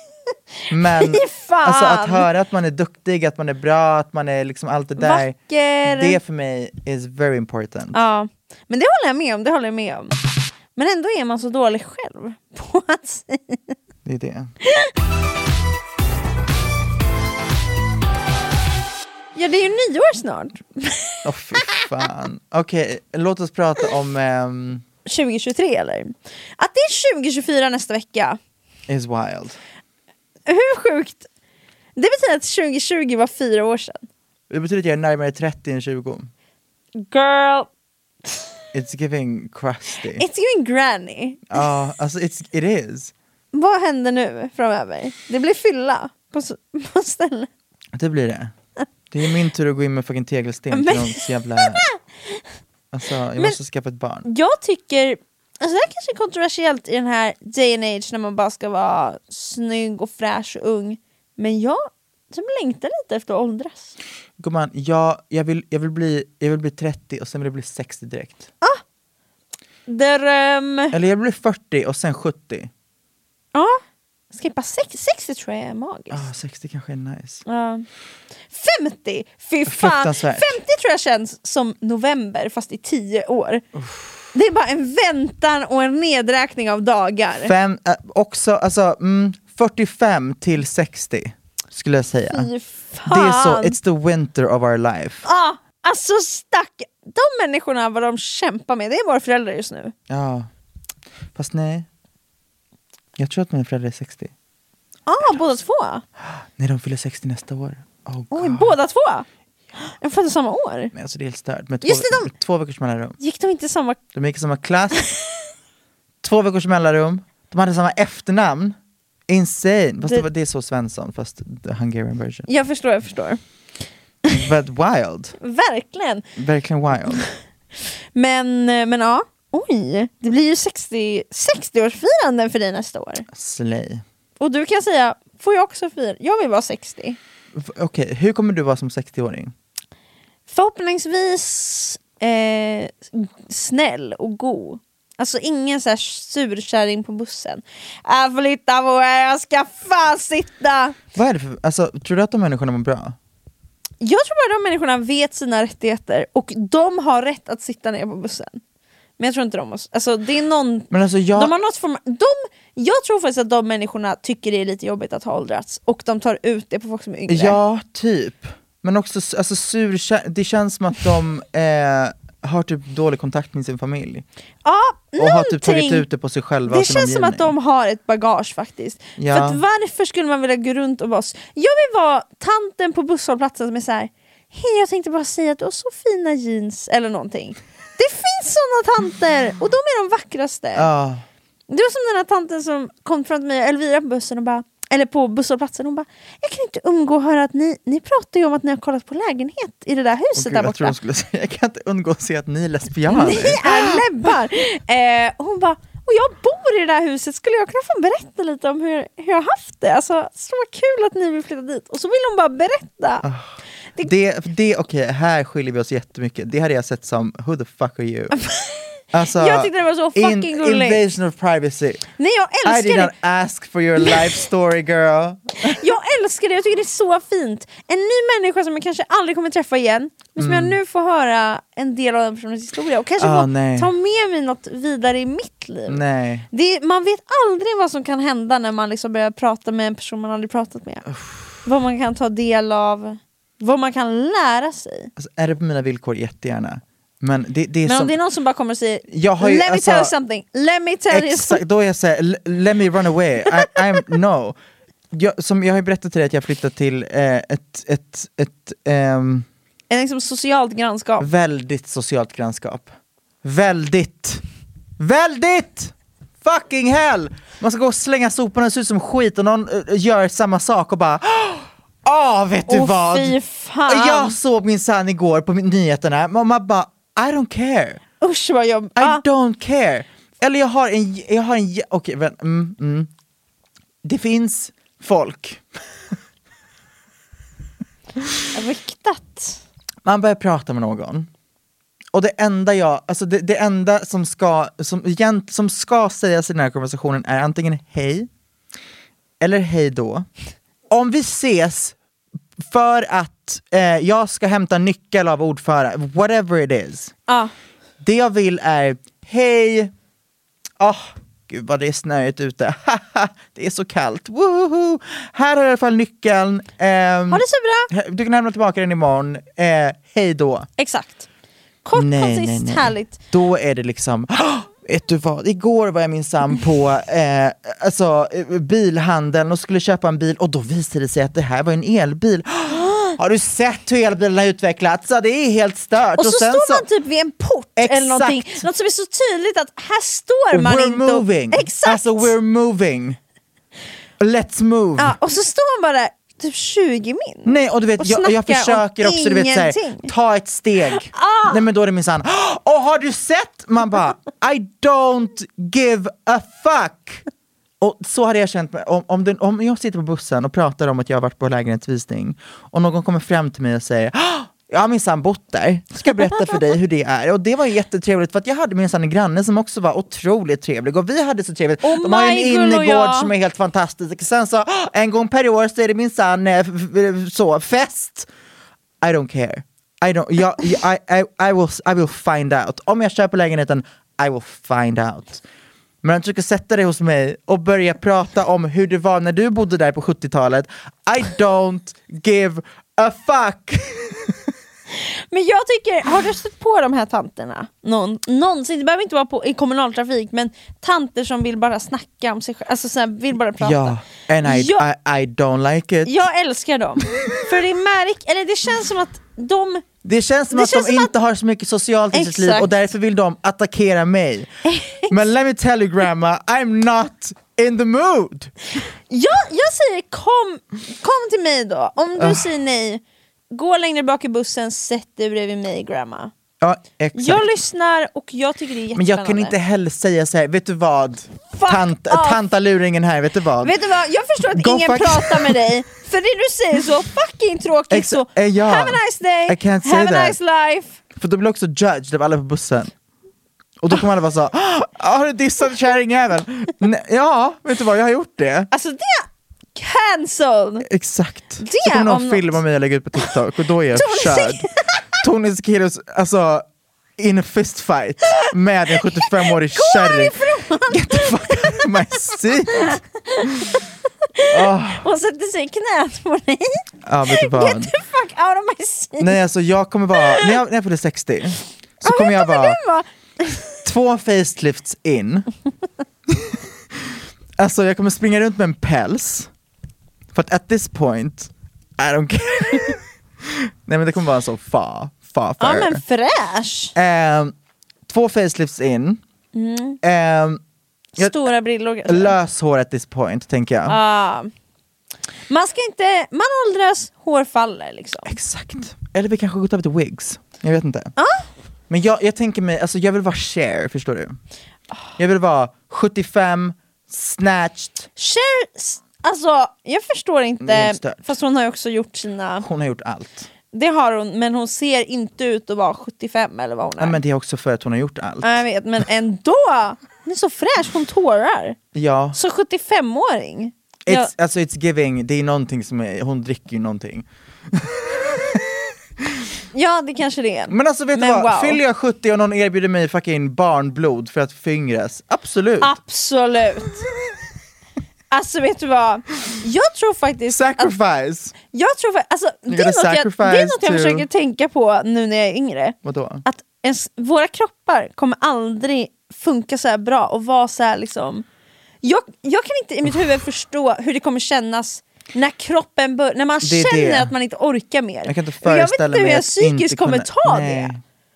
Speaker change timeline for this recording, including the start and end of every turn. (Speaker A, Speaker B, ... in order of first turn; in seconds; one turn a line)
Speaker A: 0.7-8.0
Speaker B: 0.9-2.3
Speaker B: 5.0-6.2
Speaker B: 7.9-10.2
Speaker B: 10.8-13.8
Speaker A: 14.1-14.5
Speaker B: 14.7-14.9
Speaker B: 19.4-21.8
Speaker A: 21.2-24.8
Speaker B: 25.1-28.4
Speaker A: 28.9-29.6
Speaker B: 30.5-31.3
Speaker B: 32.0-34.1
Speaker A: 34.5-36.3
Speaker B: 37.0-37.7
Speaker A: 38.7-40.2
Speaker B: 40.1-41.6
Speaker A: 41.5-43.1
Speaker B: 43.5-47.5
Speaker A: 47.9-48.5
Speaker A: 49.1-51.8
Speaker B: 50.7-52.3
Speaker A: 52.9-54.3
Speaker B: 54.2-63.9
Speaker A: 64.4-68.5
Speaker B: 69.9-71.0
Speaker A: 70.9-72.7
Speaker B: 73.5-73.8
Speaker B: 74.3-76.3
Speaker A: 76.1-77.4
Speaker B: 77.5-77.9
Speaker B: 78.5-83.6
Speaker A: 79.7-80.6
Speaker A: 83.8-84.3
Speaker B: 84.3-87.5
Speaker A: 87.4-92.5
Speaker B: 92.3-93.8
Speaker A: 93.1-95.3
Speaker B: 95.2-99.9
Speaker A: 100.1-100.5
Speaker A: 101.3-101.9
Speaker A: 103.2-104.3
Speaker B: 105.1-106.0
Speaker A: 106.6-108.7
Speaker B: 108.3-109.3
Speaker B: 109.8-110.9
Speaker A: 110.9-113.2
Speaker B: 111.8-112.3
Speaker B: 113.2-114.0
Speaker A: 114.1-115.1
Speaker A: 116.2-118.8
Speaker A: 119.3-122.5
Speaker B: 122.5-123.4
Speaker A: 124.3-125.4
Speaker B: 125.4-126.2
Speaker A: 126.4-127.2
Speaker B: 128.2-133.3
Speaker A: 133.3-134.0
Speaker B: 134.4-137.2
Speaker A: 137.5-139.5
Speaker B: 140.5-151.0
Speaker A: 151.1-153.2
Speaker B: 154.0-158.6
Speaker B: 159.2-167.6
Speaker A: 160.9-161.5
Speaker A: 167.3-174.2
Speaker B: 174.7-176.1
Speaker A: 175.2-177.5
Speaker B: 176.7-190.9
Speaker A: 179.2-179.6
Speaker A: 190.8-191.3
Speaker B: 191.7-201.0
Speaker A: 200.3-204.1
Speaker B: 203.1-213.3
Speaker A: 213.2-218.3
Speaker B: 218.3-221.1
Speaker A: 219.1-222.1
Speaker B: 222.2-223.1
Speaker A: 222.6-225.8
Speaker B: 225.6-236.0
Speaker A: 230.4-230.8
Speaker A: 233.2-233.9
Speaker A: 235.9-236.5
Speaker B: 236.5-241.1
Speaker B: 241.6-245.1
Speaker A: 245.2-248.2
Speaker B: 247.8-251.6
Speaker A: 249.1-250.1
Speaker A: 251.1-254.6
Speaker A: 255.1-259.5
Speaker B: 259.9-261.3
Speaker A: 261.2-262.9
Speaker A: 263.4-264.4
Speaker A: 265.0-278.0
Speaker B: 272.7-274.4
Speaker B: 278.2-279.2
Speaker A: 279.0-283.1
Speaker A: 284.0-285.6
Speaker B: 288.5-289.6
Speaker A: 290.1-291.3
Speaker A: 292.1-298.3
Speaker A: 299.4-300.3
Speaker A: 300.9-302.0
Speaker A: 302.6-307.1
Speaker B: 307.3-307.5
Speaker A: 308.0-309.9
Speaker A: 310.8-320.7
Speaker B: 317.3-317.9
Speaker B: 320.8-321.3
Speaker B: 321.9-323.2
Speaker A: 321.9-336.9
Speaker B: 332.7-333.2
Speaker B: 336.2-342.3
Speaker A: 337.8-338.6
Speaker A: 340.5-343.2
Speaker A: 344.2-345.2
Speaker B: 345.0-350.1
Speaker A: 347.4-357.2
Speaker B: 350.9-351.6
Speaker A: 357.8-378.3
Speaker B: 371.8-373.3
Speaker A: 379.0-385.4
Speaker A: 386.0-394.4
Speaker B: 395.0-404.9
Speaker A: 403.6-406.2
Speaker B: 406.1-409.9
Speaker A: 410.0-414.5
Speaker B: 410.5-411.1
Speaker B: 412.1-412.7
Speaker B: 414.6-415.2
Speaker A: 415.0-418.5
Speaker B: 419.1-426.3
Speaker A: 422.2-422.5
Speaker A: 426.6-427.6
Speaker B: 427.1-429.6
Speaker A: 428.9-433.8
Speaker B: 431.5-432.4
Speaker B: 433.6-441.0
Speaker A: 434.5-435.7
Speaker A: 437.9-440.4
Speaker A: 441.1-442.9
Speaker A: 443.8-448.7
Speaker B: 448.7-450.9
Speaker A: 450.8-454.7
Speaker B: 451.6-452.6
Speaker B: 453.9-454.7
Speaker A: 455.2-456.7
Speaker A: 457.2-460.4
Speaker B: 459.2-461.9
Speaker A: 460.9-463.0
Speaker B: 462.7-463.8
Speaker B: 464.4-469.4
Speaker A: 464.5-465.1
Speaker A: 467.0-467.9
Speaker A: 469.2-472.8
Speaker B: 470.1-470.6
Speaker B: 472.0-473.8
Speaker A: 473.9-475.5
Speaker A: 476.3-479.5
Speaker A: 480.3-486.0
Speaker B: 485.6-486.9
Speaker A: 486.9-487.6
Speaker A: 488.1-489.2
Speaker B: 489.5-490.0
Speaker A: 490.0-490.6
Speaker B: 491.2-492.4
Speaker A: 492.1-494.0
Speaker B: 493.9-494.5
Speaker B: 495.5-498.4
Speaker A: 498.3-501.1
Speaker B: 501.2-501.5
Speaker A: 501.9-504.4
Speaker A: 505.2-508.1
Speaker B: 508.2-512.7
Speaker A: 510.6-511.3
Speaker A: 512.6-513.5
Speaker B: 513.7-517.2
Speaker A: 517.0-518.6
Speaker B: 518.4-521.8
Speaker A: 521.9-522.4
Speaker B: 522.3-524.3
Speaker A: 524.1-528.7
Speaker B: 529.7-531.8
Speaker A: 530.7-535.9
Speaker B: 535.8-537.0
Speaker B: 538.3-540.9
Speaker A: 540.5-541.5
Speaker B: 541.6-551.5
Speaker A: 542.7-544.3
Speaker A: 546.0-546.4
Speaker B: 552.0-560.9
Speaker A: 556.6-557.3
Speaker A: 558.2-561.0